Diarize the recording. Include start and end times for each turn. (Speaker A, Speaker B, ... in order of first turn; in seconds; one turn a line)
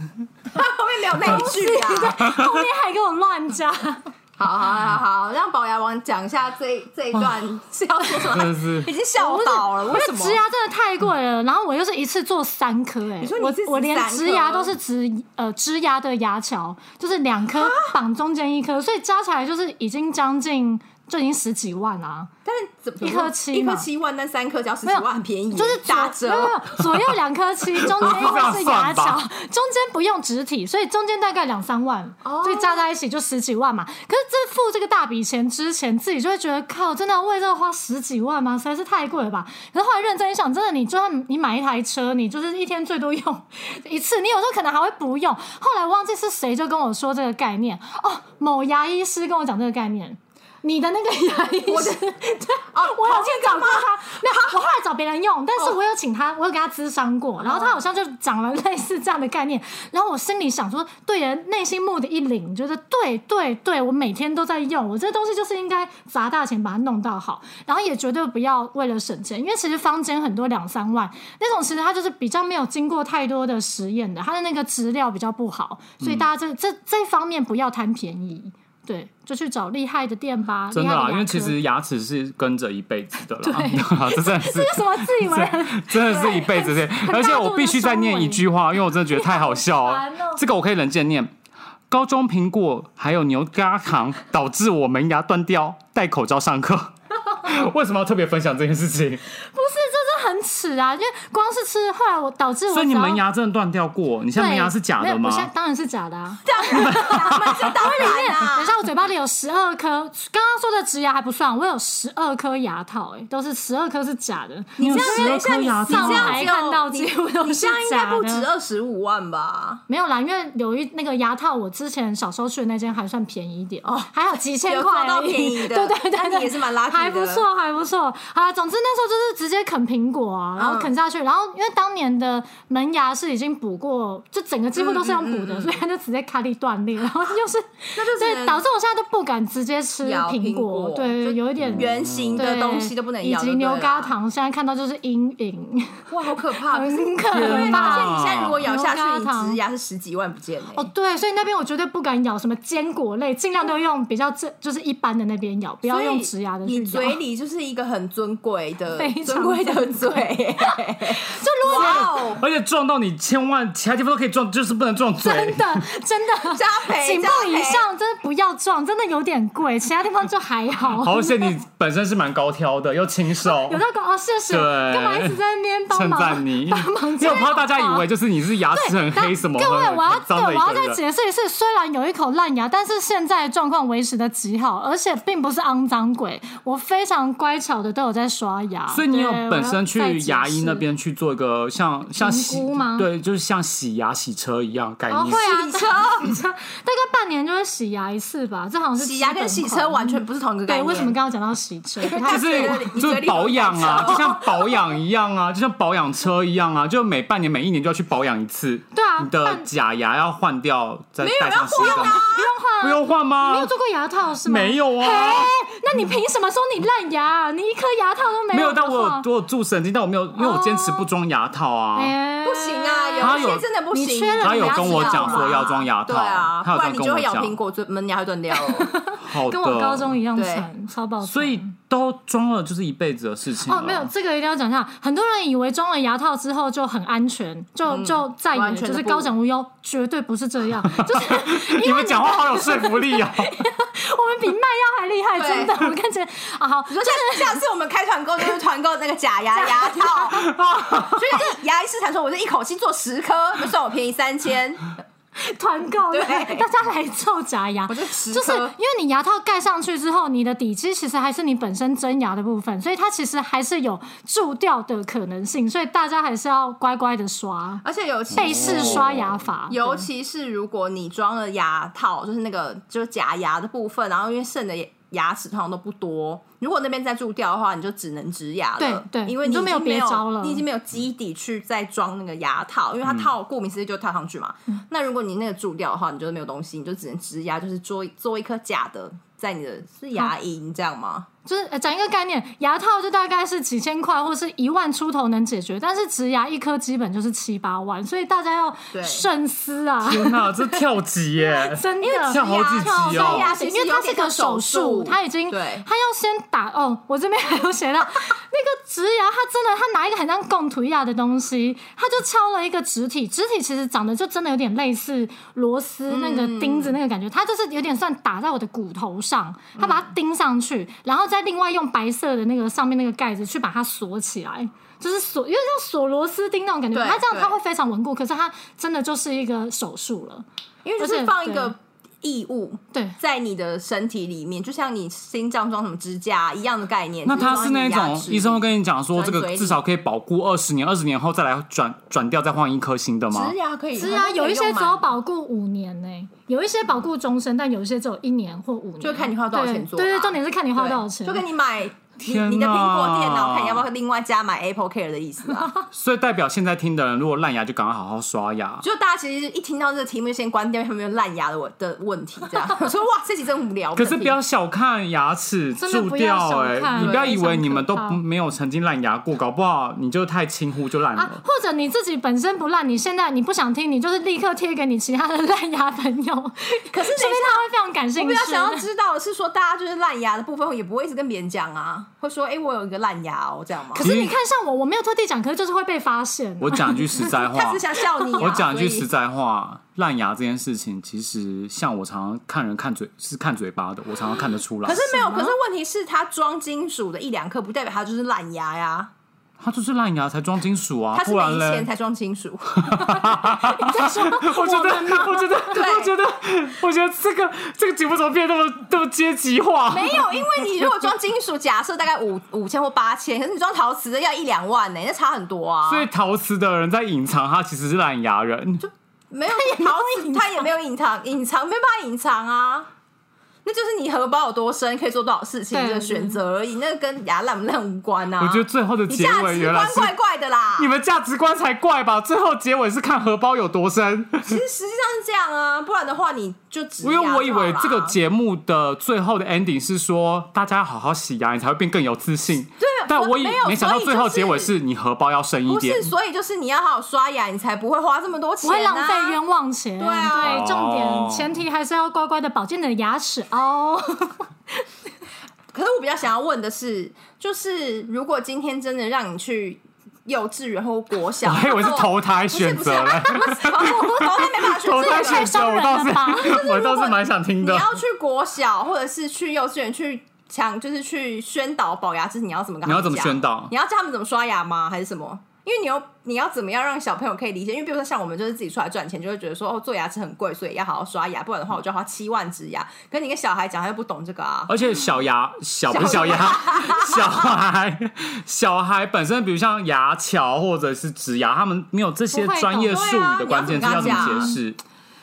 Speaker A: 0.5-2.2
Speaker B: 1.2-4.1
Speaker C: 2.2-2.7
Speaker A: 4.4-10.4
Speaker C: 8.2-8.9
Speaker B: 9.2-22.3
Speaker A: 13.2-14.7
Speaker A: 17.6-17.9
Speaker A: 22.4-26.7
Speaker B: 23.0-23.9
Speaker B: 24.8-81.5
Speaker C: 27.8-29.2
Speaker A: 32.2-32.9
Speaker A: 51.7-52.0
Speaker A: 52.7-54.6
Speaker A: 57.4-57.8
Speaker C: 76.0-76.3
Speaker C: 80.7-91.3
Speaker B: 83.4-90.4
Speaker C: 91.9-99.2
Speaker B: 99.5-103.2
Speaker C: 102.7-105.5
Speaker B: 104.3-118.5
Speaker A: 106.4-108.7
Speaker C: 106.9-107.8
Speaker A: 114.8-119.8
Speaker C: 114.8-116.5
Speaker B: 119.9-146.0
Speaker A: 123.8-124.1
Speaker A: 124.7-127.4
Speaker A: 130.6-130.9
Speaker A: 134.7-135.8
Speaker A: 137.9-138.6
Speaker A: 140.0-144.1
Speaker C: 141.6-142.4
Speaker A: 146.1-150.9
Speaker B: 146.6-149.6
Speaker C: 147.3-148.6
Speaker B: 150.8-157.2
Speaker A: 155.8-162.4
Speaker B: 159.0-162.2
Speaker C: 161.8-165.9
Speaker B: 165.2-171.6
Speaker A: 166.5-167.8
Speaker C: 170.9-173.8
Speaker B: 173.4-178.1
Speaker C: 174.5-175.4
Speaker C: 175.9-181.0
Speaker B: 178.6-190.8
Speaker C: 188.9-195.5
Speaker B: 192.2-193.1
Speaker B: 195.1-202.9
Speaker A: 195.3-196.3
Speaker A: 199.0-201.2
Speaker A: 202.0-204.5
Speaker C: 202.2-212.3
Speaker B: 208.9-209.7
Speaker A: 211.2-212.5
Speaker B: 211.8-219.2
Speaker C: 212.8-213.7
Speaker C: 214.4-215.6
Speaker C: 218.5-222.2
Speaker B: 220.3-221.1
Speaker B: 221.9-225.8
Speaker A: 222.4-229.0
Speaker C: 223.2-223.6
Speaker C: 224.4-227.6
Speaker B: 228.6-231.7
Speaker C: 229.2-230.2
Speaker A: 230.3-230.7
Speaker C: 231.2-234.1
Speaker B: 233.7-247.6
Speaker A: 237.9-239.3
Speaker C: 240.8-243.6
Speaker A: 245.3-245.9
Speaker A: 246.9-254.9
Speaker B: 249.6-250.4
Speaker C: 250.3-251.4
Speaker B: 255.4-270.1
Speaker A: 256.1-256.7
Speaker A: 257.9-258.7
Speaker A: 267.8-269.1
Speaker C: 268.3-269.4
Speaker A: 269.7-291.3
Speaker B: 278.8-280.6
Speaker B: 291.4-300.8
Speaker A: 298.9-299.3
Speaker C: 300.0-303.5
Speaker B: 301.4-330.4
Speaker A: 302.0-305.9
Speaker A: 316.1-317.0
Speaker A: 319.8-320.1
Speaker A: 326.9-327.5
Speaker A: 330.8-339.8
Speaker B: 331.0-331.7
Speaker C: 337.2-343.5
Speaker A: 343.3-345.1
Speaker B: 343.9-351.4
Speaker A: 349.0-355.7
Speaker C: 352.2-353.9
Speaker C: 355.9-358.8
Speaker A: 358.8-364.4
Speaker C: 363.9-371.4
Speaker B: 365.8-368.2
Speaker A: 367.0-367.2
Speaker B: 371.1-378.9
Speaker A: 376.9-384.0
Speaker B: 383.9-387.4
Speaker C: 384.0-384.3
Speaker C: 386.6-387.8
Speaker A: 387.5-389.1
Speaker C: 388.4-395.1
Speaker A: 394.8-399.1
Speaker B: 394.9-395.6
Speaker C: 399.6-401.9
Speaker A: 401.1-403.3
Speaker C: 402.8-411.1
Speaker B: 403.1-405.9
Speaker A: 405.7-406.1
Speaker A: 409.9-416.1
Speaker C: 415.9-418.8
Speaker A: 418.8-422.9
Speaker B: 419.5-420.6
Speaker A: 423.6-430.9
Speaker B: 425.7-426.4
Speaker C: 428.4-430.1
Speaker C: 430.8-434.6
Speaker A: 434.4-438.1
Speaker C: 437.0-446.1
Speaker A: 442.8-444.7
Speaker A: 445.7-449.4
Speaker B: 448.6-454.4
Speaker A: 450.0-450.7
Speaker C: 450.4-451.6
Speaker A: 455.7-465.6
Speaker C: 461.4-468.0
Speaker B: 463.4-464.3
Speaker B: 464.9-466.8
Speaker A: 466.4-484.7
Speaker C: 472.8-473.7
Speaker C: 484.7-494.8
Speaker A: 485.9-487.3
Speaker B: 492.3-493.2
Speaker A: 492.9-494.5
Speaker B: 493.8-494.5